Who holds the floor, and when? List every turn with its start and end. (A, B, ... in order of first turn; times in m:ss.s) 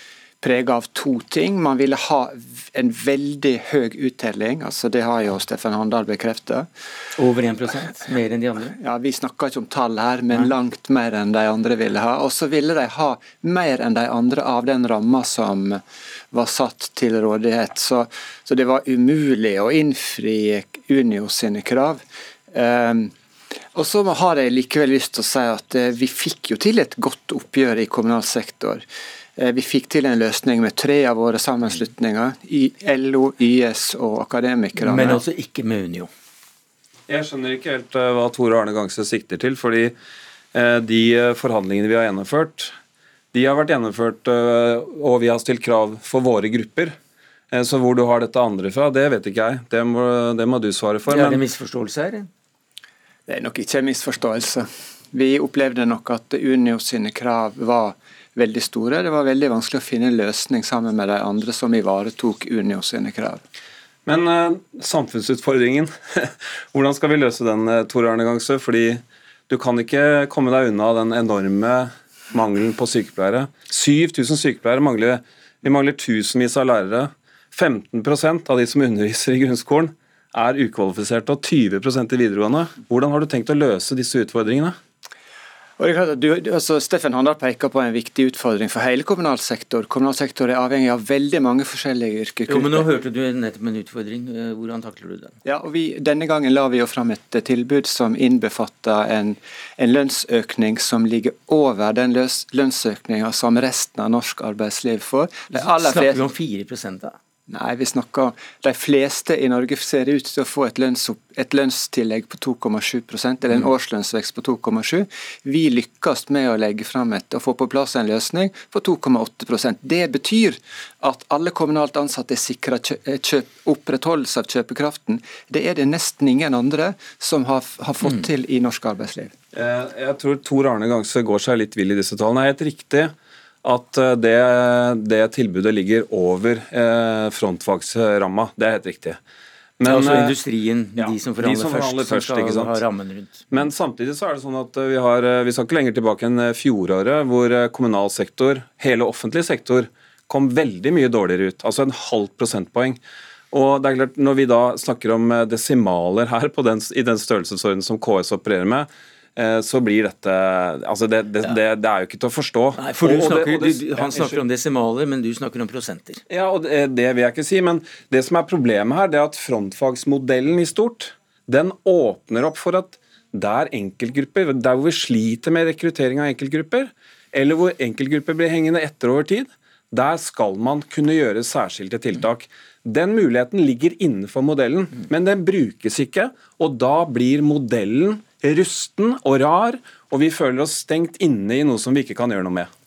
0:00.4-0:06.7 A
0:07.1-0:08.8 B
0:08.8-0:23.1 A
0:23.7-0:28.8 A
0:29.4-0:35.2 A
0:34.8-0:36.1 B
0:37.1-0:39.9 C
0:40.5-0:42.7 C
0:43.3-0:46.9 C
0:47.5-0:51.4 C
0:51.1-0:52.3 B
0:53.3-1:03.4 A
1:04.0-1:24.8 C
1:25.8-1:32.8 A
1:32.5-1:35.3 B
1:35.4-1:46.2 A
1:45.5-1:47.2 B
1:47.5-2:09.3 A
2:09.5-2:19.2 C
2:19.8-2:20.4 C
2:19.8-2:23.5 B
2:21.0-2:22.8 C
2:23.5-2:33.0 C
2:33.5-2:44.4 C
2:42.8-2:46.2 B
2:46.3-3:12.7 C